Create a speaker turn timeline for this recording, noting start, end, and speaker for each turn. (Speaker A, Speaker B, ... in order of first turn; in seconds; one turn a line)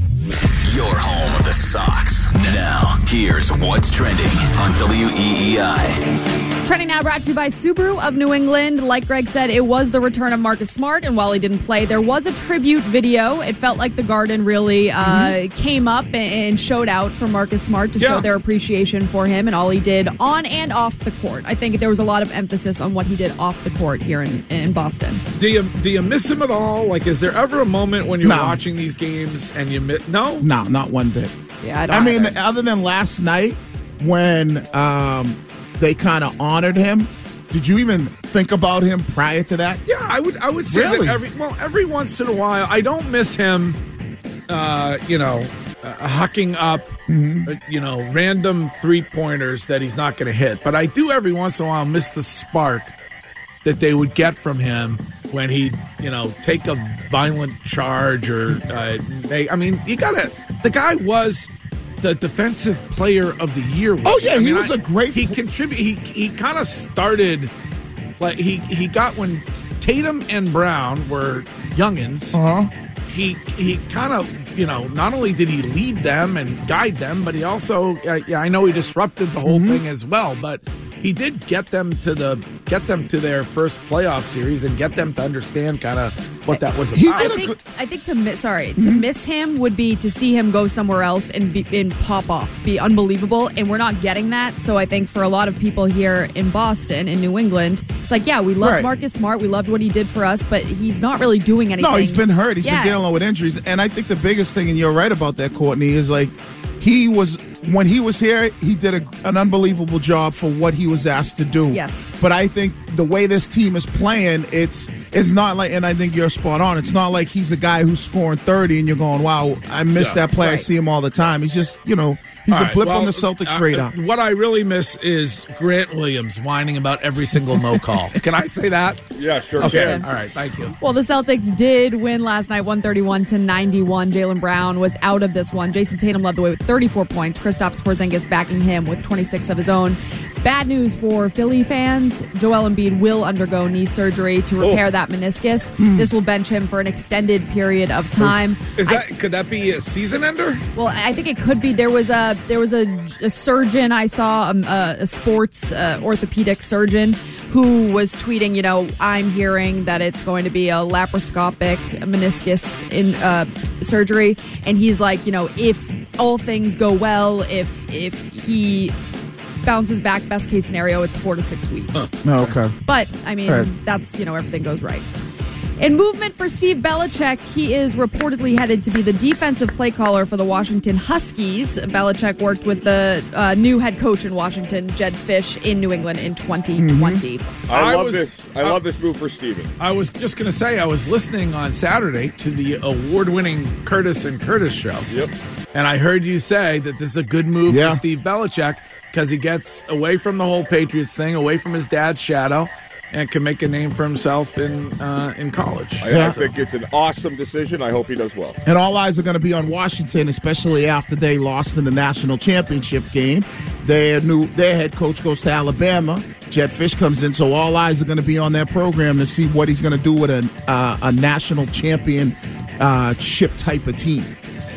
Speaker A: 0.7-6.0
Speaker B: 6.6-25.2
Speaker C: 15.0-15.3
Speaker D: 18.0-18.3
Speaker D: 25.3-30.5
Speaker C: 28.2-28.6
Speaker C: 30.4-31.3
Speaker B: 31.6-32.4
Speaker C: 31.9-39.8
Speaker D: 39.9-43.8
Speaker C: 40.7-41.2
Speaker D: 44.5-46.9
Speaker C: 47.1-47.5
Speaker D: 47.5-52.9
Speaker D: 53.6-67.5
Speaker C: 64.0-65.4
Speaker D: 68.2-72.4
Speaker C: 72.3-72.7
Speaker D: 73.1-87.4
Speaker C: 79.5-79.8
Speaker C: 87.0-87.6
Speaker B: 87.1-103.0
Speaker C: 88.8-89.1
Speaker C: 98.6-98.9
Speaker C: 101.8-123.9
Speaker B: 111.7-112.1
Speaker B: 120.4-120.7
Speaker D: 122.5-129.0
Speaker C: 127.5-127.8
Speaker E: 129.2-130.0
Speaker D: 129.6-130.8
Speaker B: 129.6-130.1
Speaker B: 130.8-149.0
Speaker C: 145.8-146.1
Speaker D: 148.8-150.6
Speaker B: 150.8-168.9
Speaker B: 169.6-172.1
Speaker D: 171.9-172.6
Speaker C: 172.2-172.8
Speaker B: 172.8-175.1
Speaker B: 175.8-187.5
Speaker C: 186.8-187.2
Speaker E: 187.7-189.7
Speaker D: 187.7-188.8
Speaker D: 189.8-195.1
Speaker D: 195.7-206.5
Speaker C: 197.7-198.0
Speaker E: 206.0-208.6
Speaker C: 206.1-206.4
Speaker C: 208.7-224.3